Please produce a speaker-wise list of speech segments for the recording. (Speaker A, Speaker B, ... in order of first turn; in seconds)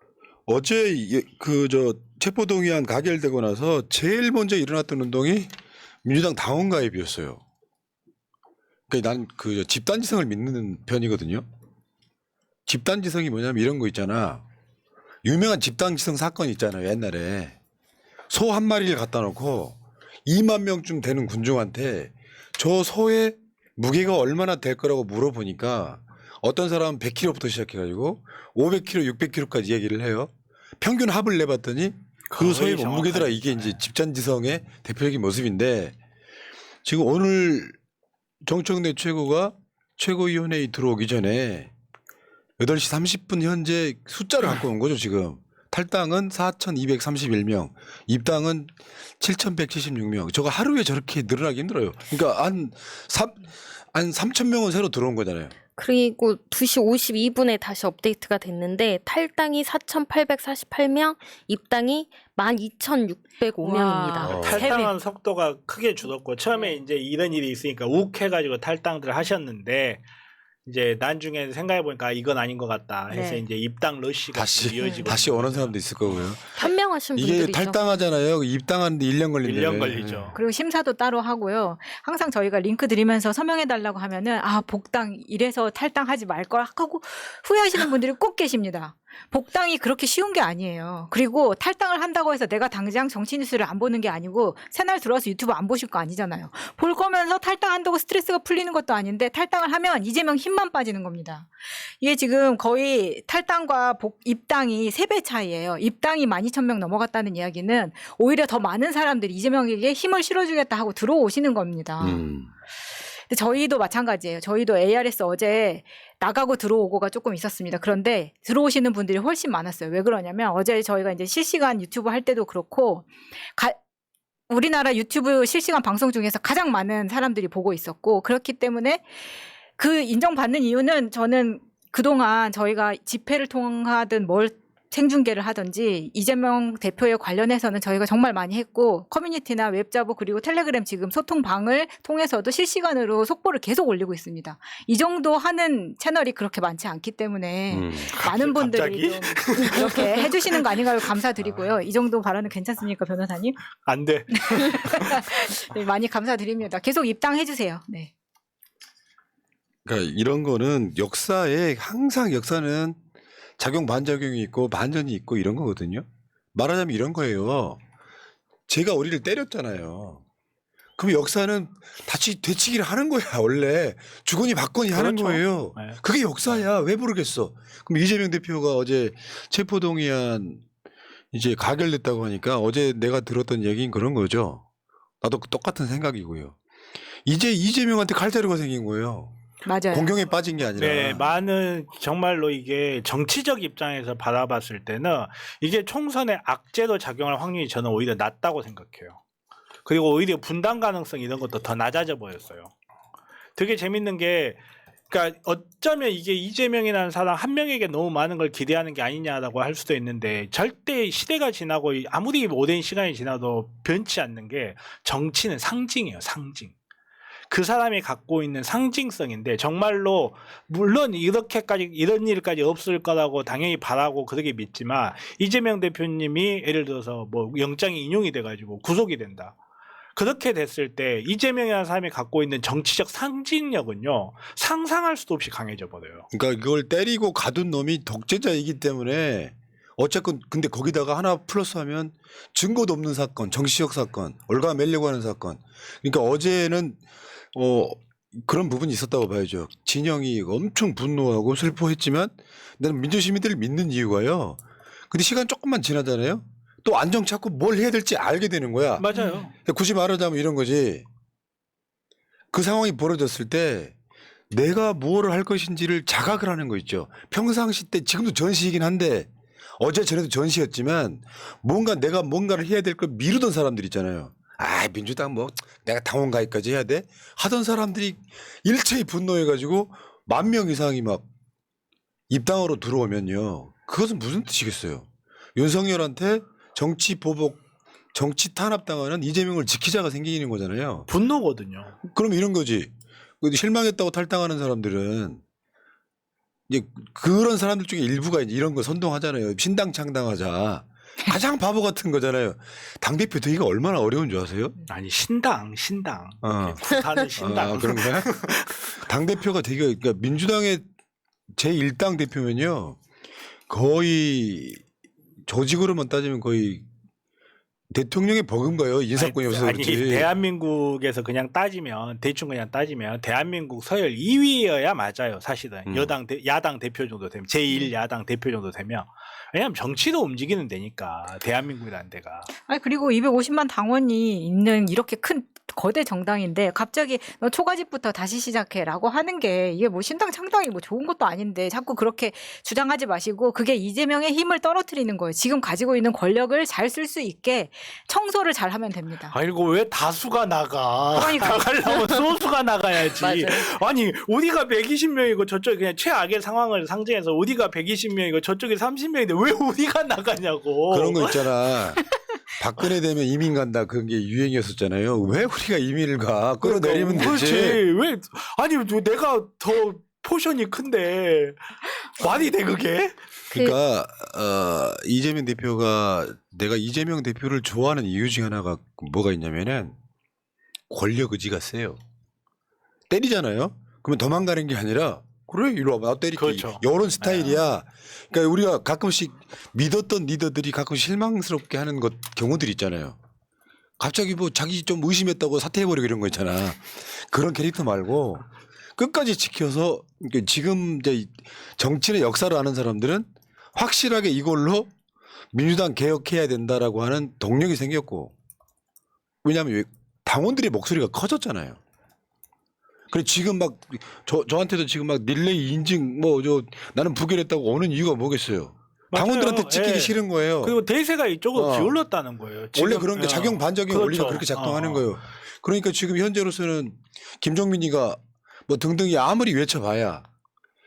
Speaker A: 0.5-5.5, 6.0-7.4, 8.9-11.4, 12.7-14.4, 15.2-17.6, 18.3-36.0, 36.8-37.8, 38.5-41.7, 42.6-55.5, 64.2-64.7, 74.3-76.6, 77.1-80.3, 112.0-112.5, 147.7-148.0, 159.8-163.0, 163.6-167.8, 168.7-170.2, 171.0-180.6, 181.3-184.6, 185.2-186.6, 187.2-189.3, 189.9-191.2, 236.3-247.0, 247.5-261.1, 262.5-263.9, 264.5-281.2, 282.3-287.6, 288.1-291.1, 292.1-292.9, 293.4-295.4, 296.7-304.7, 306.4-306.8, 307.4-308.3, 308.9-310.8, 311.6-313.0, 313.7-314.8, 315.4-316.9, 317.9-320.3, 325.9-326.1, 360.9-367.8, 373.5-379.9, 380.9-382.0, 383.1-393.2, 394.0-398.4, 398.9-404.9, 405.5-408.3, 409.4-411.8, 413.1-420.8, 421.5-422.0, 422.7-430.2
Speaker B: 32.3-33.8, 64.2-70.0, 70.7-75.8, 79.4-80.4, 148.0-150.8, 153.8-155.2, 174.9-176.6, 190.8-199.2, 199.8-202.7, 203.6-216.7, 217.5-229.6, 230.1-236.2, 259.0-259.5, 291.1-291.9, 304.9-308.8, 319.1-332.5, 349.3-361.5, 366.6-373.2, 386.4-387.6, 419.1-425.1
Speaker C: 55.8-64.9, 76.5-77.8, 353.2-353.7
Speaker D: 63.6-64.8, 73.1-73.4, 80.3-112.2, 113.3-123.8, 124.5-153.6, 154.3-158.1, 189.6-190.1, 259.1-259.4, 332.7-349.3, 351.1-351.6